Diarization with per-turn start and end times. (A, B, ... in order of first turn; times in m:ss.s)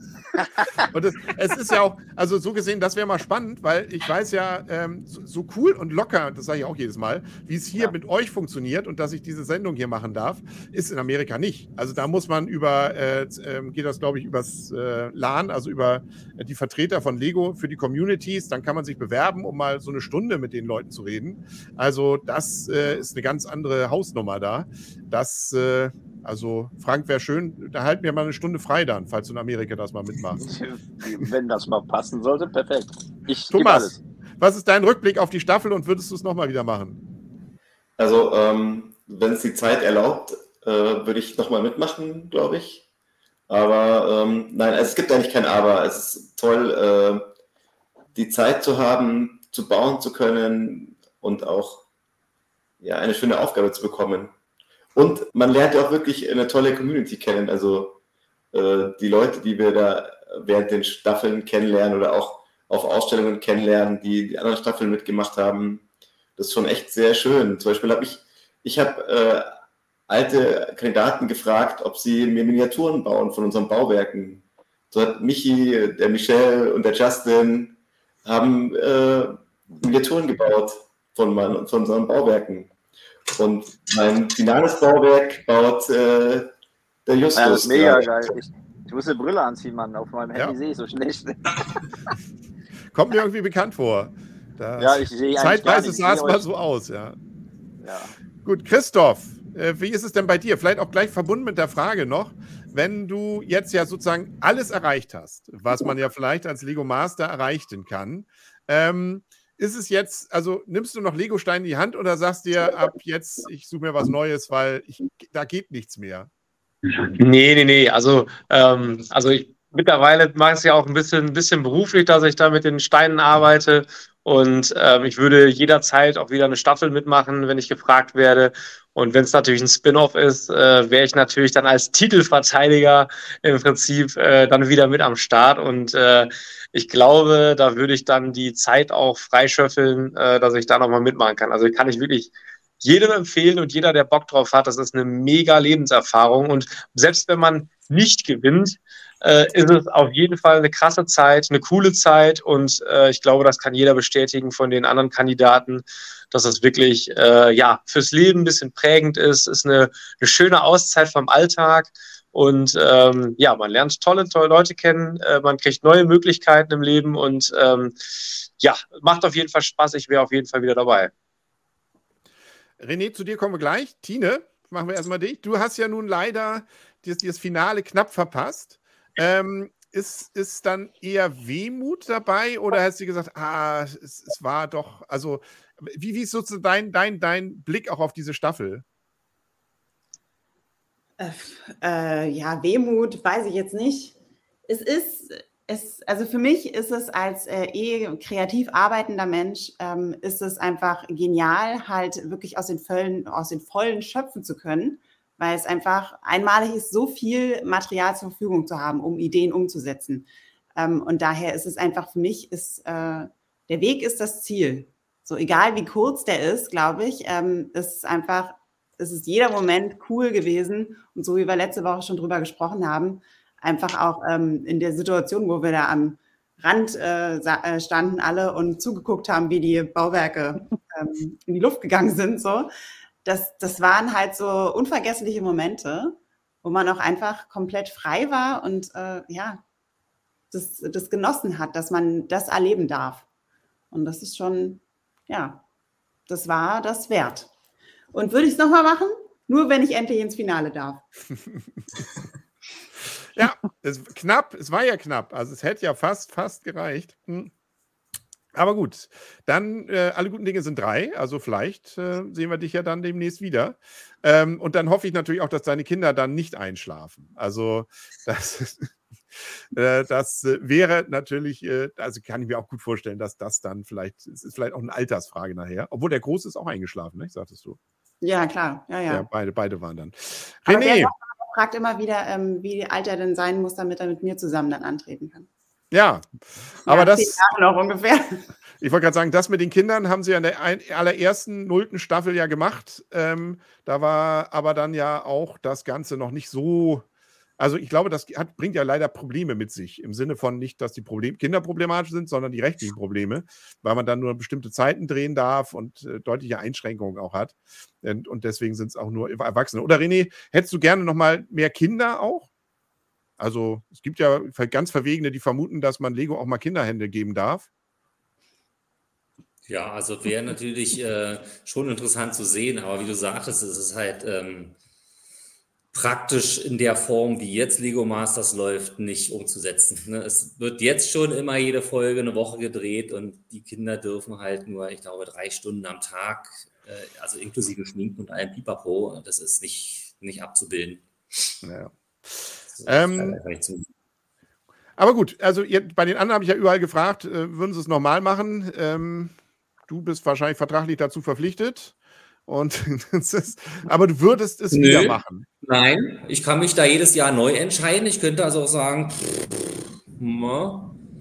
0:00.3-0:00.9 A
0:00.9-0:30.5 B
0:30.3-0:34.0 A
0:33.5-0:37.0 B
0:38.0-0:42.8 C
0:43.5-0:47.2 C
0:48.1-0:51.8 C
0:52.8-0:54.3 C
0:54.9-0:58.0 C
0:58.5-1:05.8 C
1:06.4-1:09.5 C
1:10.1-1:22.7 C
1:23.3-1:26.5 C
1:27.0-1:28.3 C
1:27.3-1:31.8 A
1:32.9-1:37.2 B
1:34.8-1:36.4 A
1:37.8-1:38.1 A
1:38.4-1:56.3 B
1:57.2-2:51.1 D
2:52.8-3:08.8 B
3:11.2-3:14.1 E
3:14.7-3:52.7 E
3:53.2-3:59.6 E
4:00.5-4:03.2 E
4:03.9-4:05.6 E
4:06.3-4:07.5 E
4:08.1-4:11.0 E
4:13.3-4:17.5 B
4:18.5-4:28.9 B
4:29.7-4:37.8 B
4:38.2-4:39.3 E
4:39.1-4:41.1 B
4:40.7-4:45.5 E
4:45.9-4:47.4 B
4:46.9-4:48.4 E
4:48.8-4:57.0 B
4:57.6-5:12.5 B
5:13.4-5:17.7 B
5:19.7-5:24.8 F
5:25.9-5:41.5 F
5:41.6-5:43.4 B
5:42.7-5:43.9 F
5:45.0-5:49.3 B
5:49.9-5:51.9 B
5:52.5-5:55.4 B
5:54.7-6:01.0 F